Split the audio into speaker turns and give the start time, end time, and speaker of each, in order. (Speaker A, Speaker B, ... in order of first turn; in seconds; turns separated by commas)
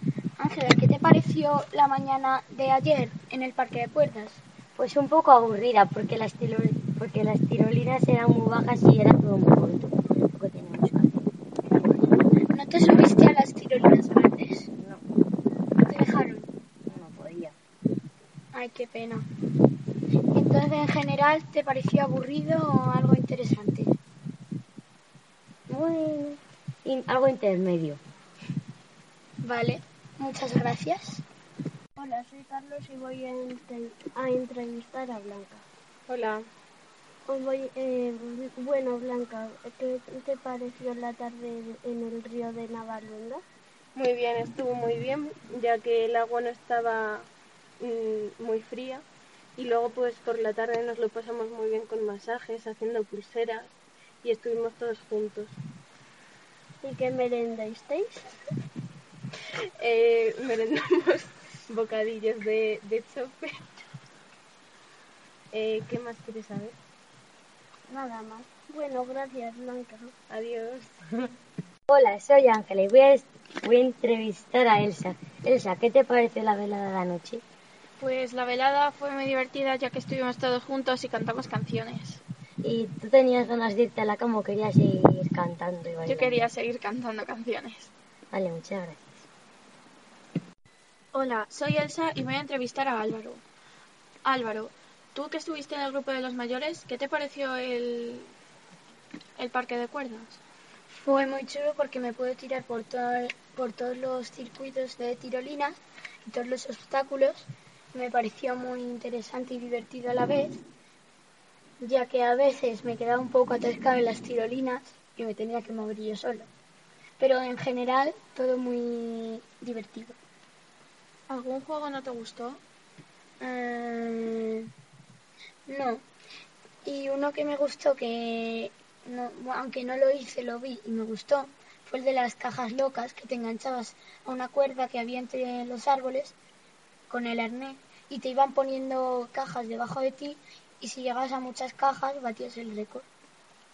Speaker A: 0.4-4.4, Speaker B: 4.8-12.1, Speaker A: 12.5-14.7, Speaker A: 15.8-16.5, Speaker B: 16.9-17.6, Speaker A: 18.5-19.3, Speaker A: 20.3-23.9, Speaker B: 25.7-28.0, Speaker A: 29.4-31.2, Speaker C: 32.0-35.6, Speaker D: 36.1-36.4, Speaker C: 37.3-43.4, Speaker D: 44.0-47.3, Speaker D: 47.8-49.0, Speaker D: 49.6-55.6, Speaker C: 56.8-58.3, Speaker D: 59.8-63.8, Speaker D: 65.5-66.8, Speaker C: 67.9-70.1, Speaker D: 70.3-71.0, Speaker B: 71.9-77.4, Speaker E: 78.0-82.2, Speaker B: 82.6-86.4, Speaker E: 86.0-87.9, Speaker B: 88.3-89.2, Speaker E: 91.1-93.4, Speaker E: 94.2-98.3, Speaker E: 99.4-100.4, Speaker A: 100.9-110.6, Speaker A: 111.8-116.5, Speaker A: 117.2-120.2, Speaker E: 121.3-122.6, Speaker A: 123.4-124.7, Speaker A: 125.7-126.0, Speaker A: 126.8-136.3, Speaker A: 137.1-143.1